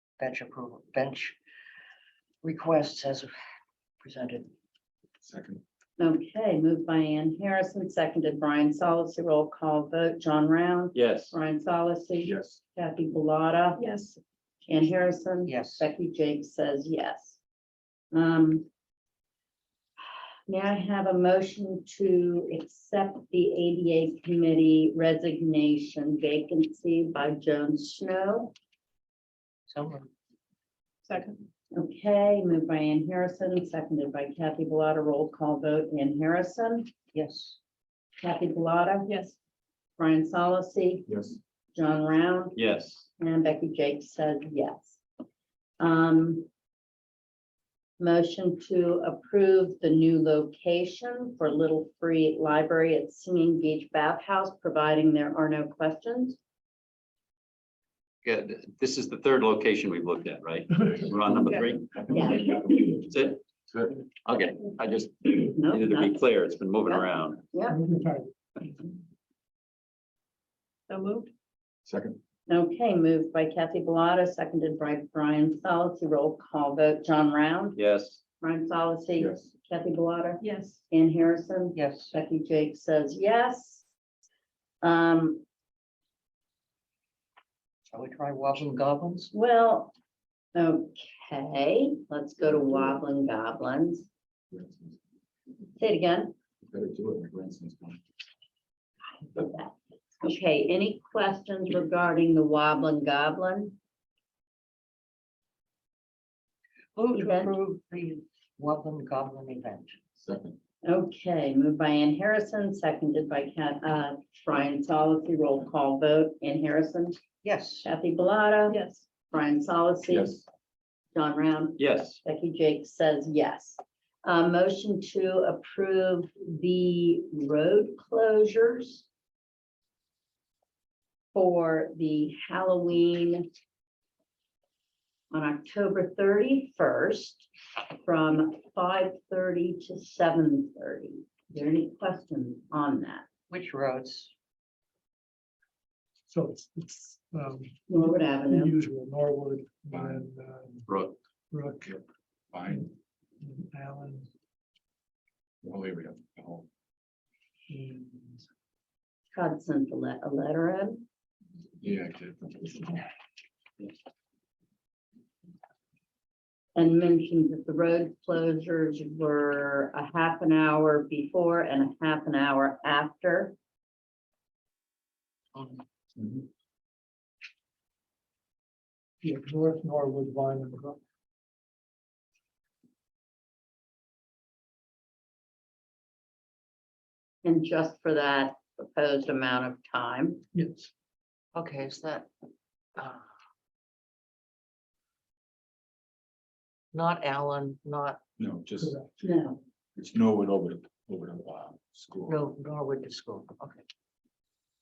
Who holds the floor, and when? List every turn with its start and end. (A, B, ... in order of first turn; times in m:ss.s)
0:00.2-0:01.3 A
0:02.4-0:03.3 A
0:04.0-0:04.5 A
0:05.2-0:05.6 B
0:06.0-0:13.8 C
0:10.9-0:11.4 D
0:12.2-0:12.6 B
0:13.8-0:14.2 E
0:14.7-0:17.4 C
0:15.4-0:15.9 A
0:18.1-0:18.7 C
0:20.5-0:28.5 C
0:29.7-0:30.1 A
0:31.0-0:31.4 E
0:31.7-0:36.9 C
0:37.1-0:37.6 A
0:38.2-0:39.1 C
0:39.0-0:39.4 E
0:40.0-0:41.1 C
0:41.1-0:41.4 B
0:41.7-0:42.6 C
0:42.6-0:43.0 D
0:43.2-0:45.0 C
0:45.8-0:46.5 C
0:48.0-0:56.4 C
0:58.2-1:03.4 D
1:00.8-1:02.9 B
1:01.4-1:01.8 E
1:02.1-1:02.5 C
1:03.7-1:04.0 B
1:04.1-1:07.4 D
1:05.5-1:06.2 C
1:06.9-1:07.8 C
1:07.7-1:08.3 F
1:10.9-1:11.3 E
1:11.8-1:12.2 B
1:12.5-1:17.8 C
1:17.8-1:18.2 D
1:18.4-1:23.8 C
1:19.1-1:19.5 B
1:20.4-1:20.8 E
1:21.7-1:22.1 A
1:24.8-1:25.4 C
1:27.9-1:29.3 A
1:29.3-1:29.9 C
1:30.5-1:34.1 C
1:34.5-1:34.9 B
1:35.8-1:36.3 C
1:36.6-1:38.0 B
1:39.2-1:43.8 C
1:46.9-1:49.9 A
1:47.1-1:47.6 C
1:50.2-1:50.6 B
1:50.8-1:57.2 C
1:57.4-1:57.9 A
1:57.8-2:00.4 C
1:58.7-1:59.0 E
2:00.0-2:00.4 B
2:01.1-2:09.0 C
2:01.8-2:02.2 D
2:11.3-2:13.5 C
2:15.3-2:17.5 C
2:18.0-2:23.2 C
2:23.5-2:24.3 A
2:26.3-2:30.9 F
2:27.9-2:28.7 C
2:29.9-2:30.2 B
2:30.9-2:31.1 D
2:31.5-2:32.0 F
2:32.5-2:32.9 B
2:33.4-2:34.3 F
2:35.6-2:36.7 B
2:37.7-2:38.4 F
2:39.3-2:41.0 C
2:41.8-2:42.8 B
2:46.8-2:53.6 C
2:55.5-2:55.8 A
2:59.2-3:01.0 F
3:07.4-3:10.4 C
3:10.5-3:10.9 F
3:11.5-3:12.3 A
3:13.0-3:13.2 A
3:16.9-3:18.2 A
3:18.4-3:19.0 B
3:18.8-3:19.2 F
3:19.2-3:19.6 C
3:20.0-3:22.4 B
3:22.3-3:23.8 A